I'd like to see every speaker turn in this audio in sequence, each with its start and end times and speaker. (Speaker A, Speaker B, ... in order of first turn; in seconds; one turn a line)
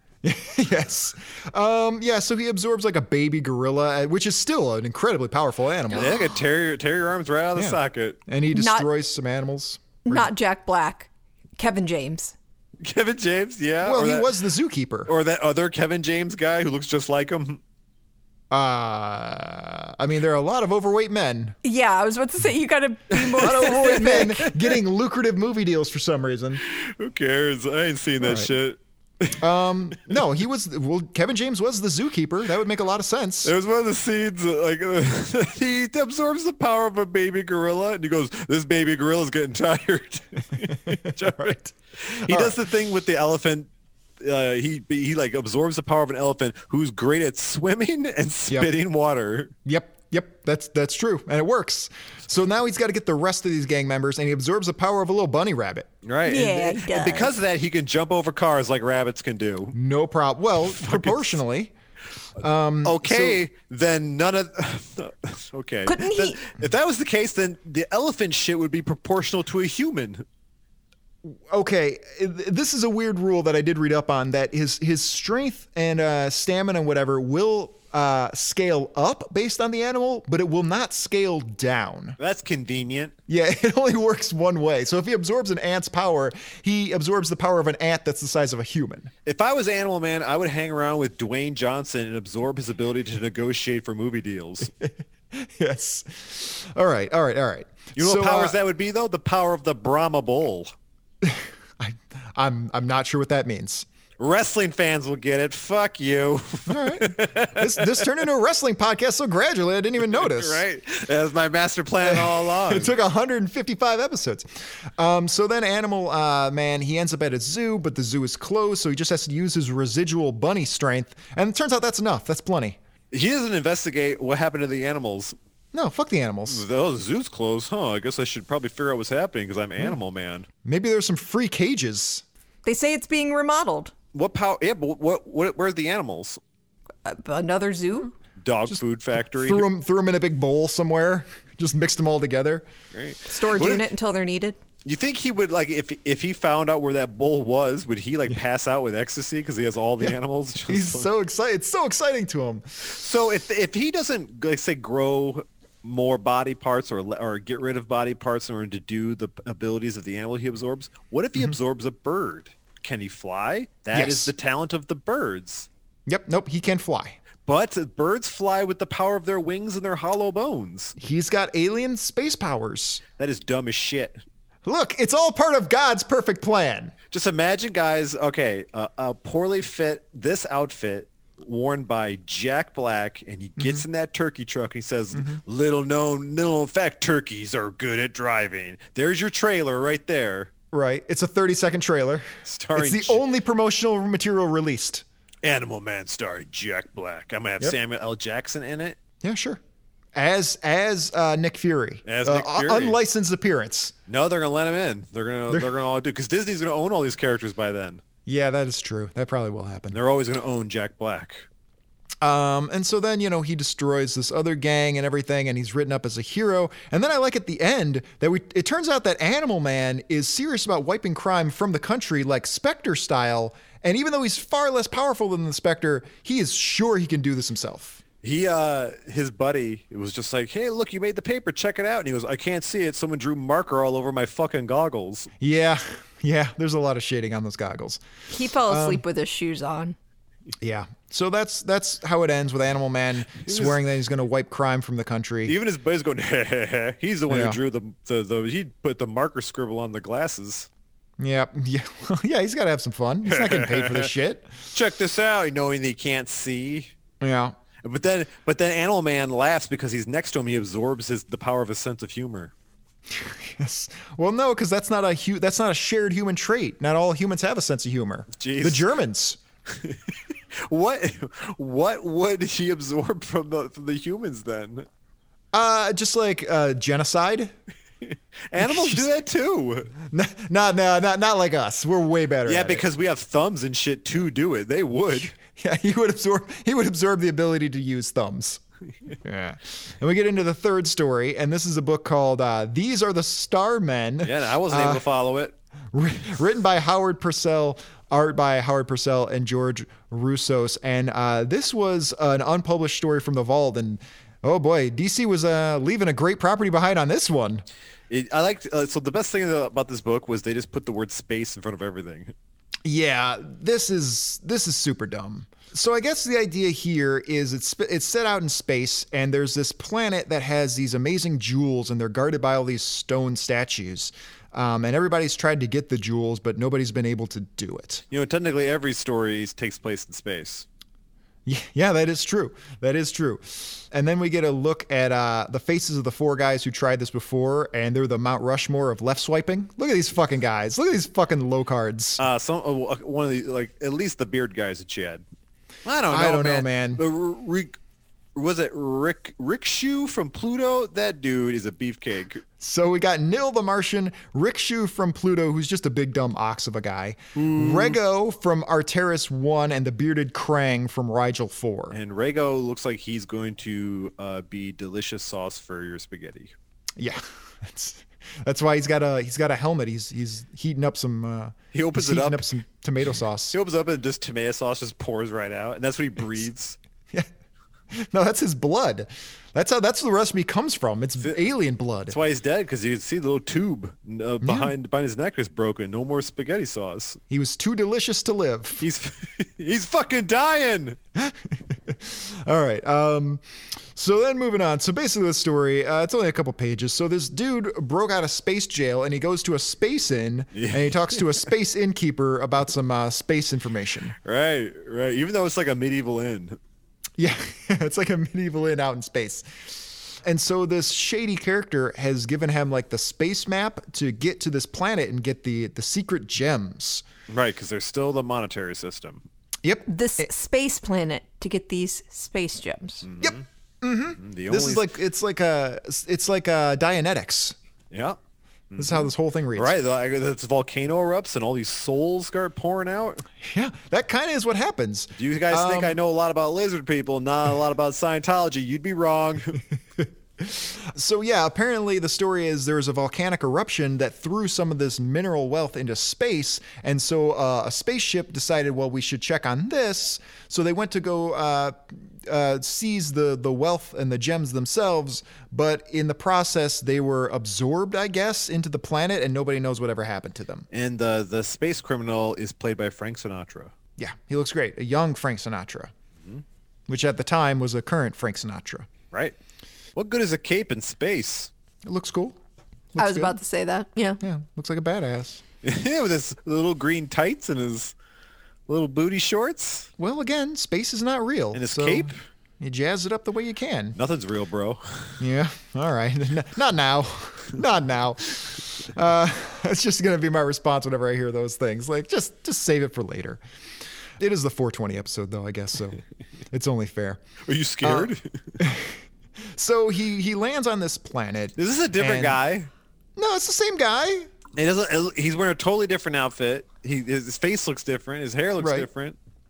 Speaker A: 0.2-6.2
Speaker B: 5.9-8.2
Speaker C: 6.0-6.3
Speaker A: 7.6-10.3
Speaker C: 8.5-8.9
Speaker C: 10.1-12.3
Speaker B: 12.8-14.3
Speaker A: 13.8-15.1
Speaker B: 15.1-17.6
Speaker A: 18.5-21.6
Speaker C: 21.6-24.3
Speaker B: 23.1-24.8
Speaker A: 23.4-26.6
Speaker B: 26.6-29.4
Speaker A: 28.2-28.5
Speaker A: 29.4-33.5
Speaker B: 33.5-43.7
Speaker A: 40.9-42.6
Speaker B: 44.2-49.5
Speaker A: 49.6-55.9
Speaker B: 56.0-59.8
Speaker C: 56.3-57.4
Speaker A: 59.7-61.7
Speaker B: 60.7-61.4
Speaker A: 62.4-63.4
Speaker B: 62.8-70.2
Speaker C: 65.9-66.4
Speaker A: 71.2-82.2
Speaker B: 82.2-83.1
Speaker A: 83.3-89.1
Speaker B: 89.3-94.7
Speaker A: 94.8-98.6
Speaker B: 98.0-100.7
Speaker A: 101.2-103.9
Speaker B: 104.2-108.1
Speaker A: 106.7-110.6
Speaker B: 110.1-113.0
Speaker A: 112.0-122.8
Speaker B: 123.1-125.4
Speaker A: 125.7-126.7
Speaker B: 126.5-130.5
Speaker A: 130.6-132.2
Speaker C: 132.7-133.9
Speaker B: 134.1-136.4
Speaker C: 137.1-138.1
Speaker B: 138.4-139.7
Speaker A: 139.4-142.7
Speaker B: 142.9-143.8
Speaker C: 143.3-144.6
Speaker B: 144.8-151.1
Speaker A: 150.7-152.7
Speaker B: 152.9-165.7
Speaker A: 163.9-164.3
Speaker A: 166.1-167.2
Speaker B: 167.4-170.9
Speaker A: 171.0-173.0
Speaker B: 173.2-174.2
Speaker A: 174.7-176.9
Speaker B: 177.1-190.5
Speaker A: 183.6-183.8
Speaker A: 185.1-185.4
Speaker A: 190.7-195.1
Speaker B: 192.5-193.2
Speaker B: 195.4-199.0
Speaker A: 199.2-199.6
Speaker A: 200.2-203.9
Speaker B: 202.1-203.0
Speaker B: 204.1-208.0
Speaker A: 208.3-210.0
Speaker B: 209.9-211.5
Speaker A: 212.2-228.0
Speaker B: 228.2-235.3
Speaker A: 235.4-238.0
Speaker C: 238.3-240.0
Speaker A: 238.6-239.0
Speaker A: 240.6-245.6
Speaker B: 243.4-243.8
Speaker B: 245.5-250.7
Speaker A: 247.3-247.6
Speaker A: 251.2-254.5
Speaker B: 253.2-254.1
Speaker B: 254.7-256.9
Speaker A: 257.2-257.6
Speaker B: 257.8-262.5
Speaker A: 263.1-269.4
Speaker B: 268.4-268.9
Speaker B: 269.8-270.1
Speaker B: 270.7-274.9
Speaker A: 275.5-277.5
Speaker B: 278.1-280.0
Speaker A: 278.6-279.1
Speaker A: 280.1-282.8
Speaker B: 282.5-285.3
Speaker A: 285.4-288.6
Speaker A: 289.2-295.0
Speaker B: 294.2-295.6
Speaker A: 295.9-307.6
Speaker B: 308.1-312.3
Speaker A: 312.9-328.0
Speaker B: 328.1-330.7
Speaker A: 331.5-342.2
Speaker B: 342.2-345.2
Speaker B: 345.9-347.7
Speaker A: 346.1-347.0
Speaker B: 348.4-352.4
Speaker A: 352.6-362.0
Speaker B: 357.4-358.0
Speaker B: 361.9-366.5
Speaker A: 367.0-373.6
Speaker B: 371.7-372.5
Speaker B: 373.5-376.8
Speaker A: 377.9-382.2
Speaker B: 382.1-387.2
Speaker A: 384.4-384.7
Speaker A: 387.3-388.9
Speaker B: 388.8-391.0
Speaker A: 391.2-404.2
Speaker B: 400.5-401.4
Speaker B: 404.2-406.6
Speaker A: 407.2-417.0
Speaker B: 417.3-419.2
Speaker A: 419.6-420.3
Speaker C: 419.9-423.1
Speaker B: 423.0-423.4
Speaker A: 423.2-427.6
Speaker B: 424.2-424.9
Speaker B: 427.9-428.2
Speaker B: 428.7-433.2
Speaker A: 428.8-429.7
Speaker A: 433.4-436.0
Speaker B: 435.2-439.6
Speaker A: 440.4-460.7
Speaker B: 460.7-463.7
Speaker A: 464.0-465.9
Speaker A: 466.9-468.9
Speaker B: 470.0-471.5
Speaker A: 471.9-472.4
Speaker A: 472.9-473.4
Speaker C: 473.0-474.2
Speaker A: 474.2-475.4
Speaker B: 475.6-477.9
Speaker B: 478.7-479.9
Speaker A: 480.0-484.0
Speaker B: 481.5-482.2
Speaker B: 484.0-485.2
Speaker A: 485.2-493.4
Speaker A: 494.2-496.0
Speaker A: 496.5-497.2
Speaker B: 497.5-498.2
Speaker A: 497.8-499.0
Speaker A: 499.6-502.4
Speaker B: 501.6-502.7
Speaker A: 503.2-504.3
Speaker B: 504.6-509.2
Speaker A: 508.6-508.9